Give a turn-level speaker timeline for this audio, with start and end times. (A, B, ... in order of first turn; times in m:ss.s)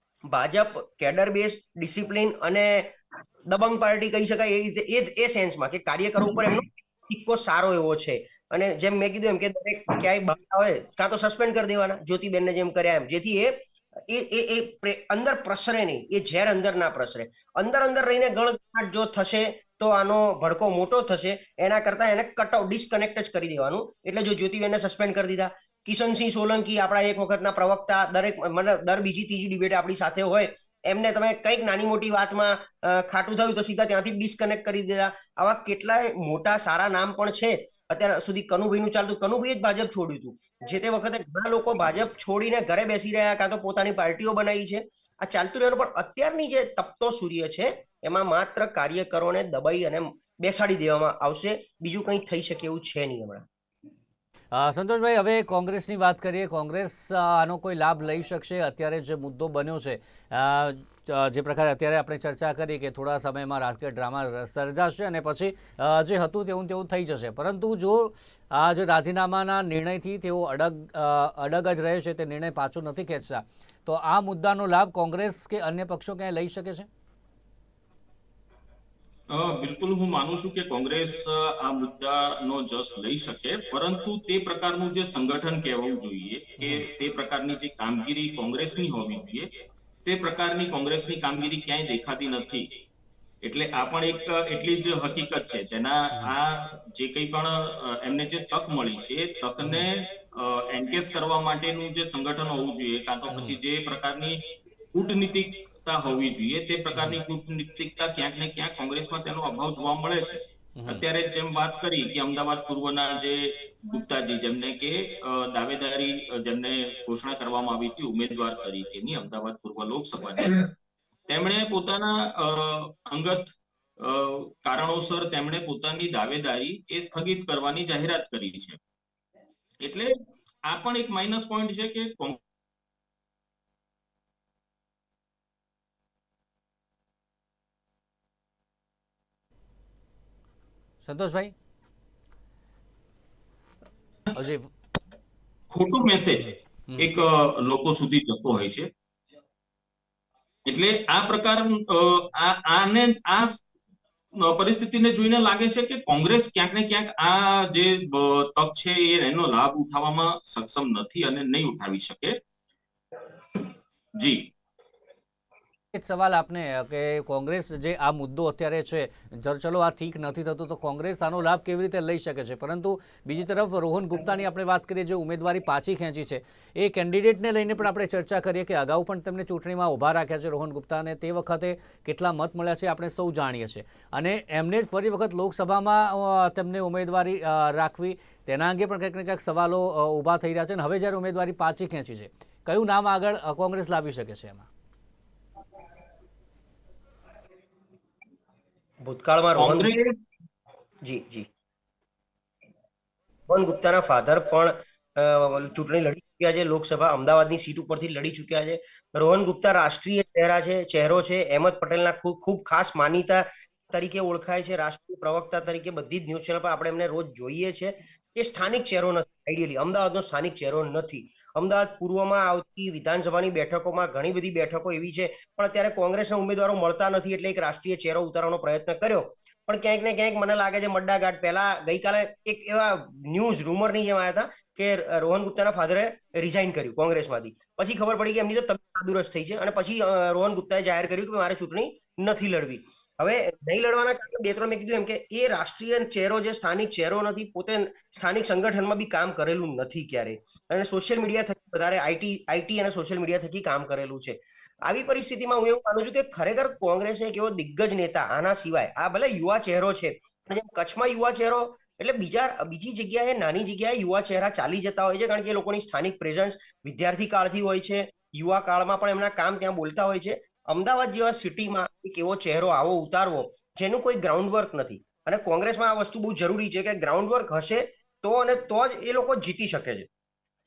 0:00.3-0:02.9 A
0:03.5-0:53.5 A
0:54.5-1:16.9 B
1:19.3-1:29.5 C
1:26.6-1:26.9 B
1:30.0-1:32.7 C
1:33.4-2:00.7 C
1:46.9-1:47.2 B
1:50.7-1:51.0 B
2:01.3-2:08.8 C
2:09.8-2:10.1 C
2:10.6-2:12.4 C
2:21.0-2:21.5 B
2:24.3-2:24.7 B
2:25.7-2:28.9 C
2:30.6-2:33.6 C
2:34.4-2:42.4 C
2:44.1-2:44.5 C
2:45.9-3:14.7 B
3:19.0-3:19.9 A
3:19.6-3:20.1 C
3:21.0-3:21.5 A
3:23.5-4:40.1 A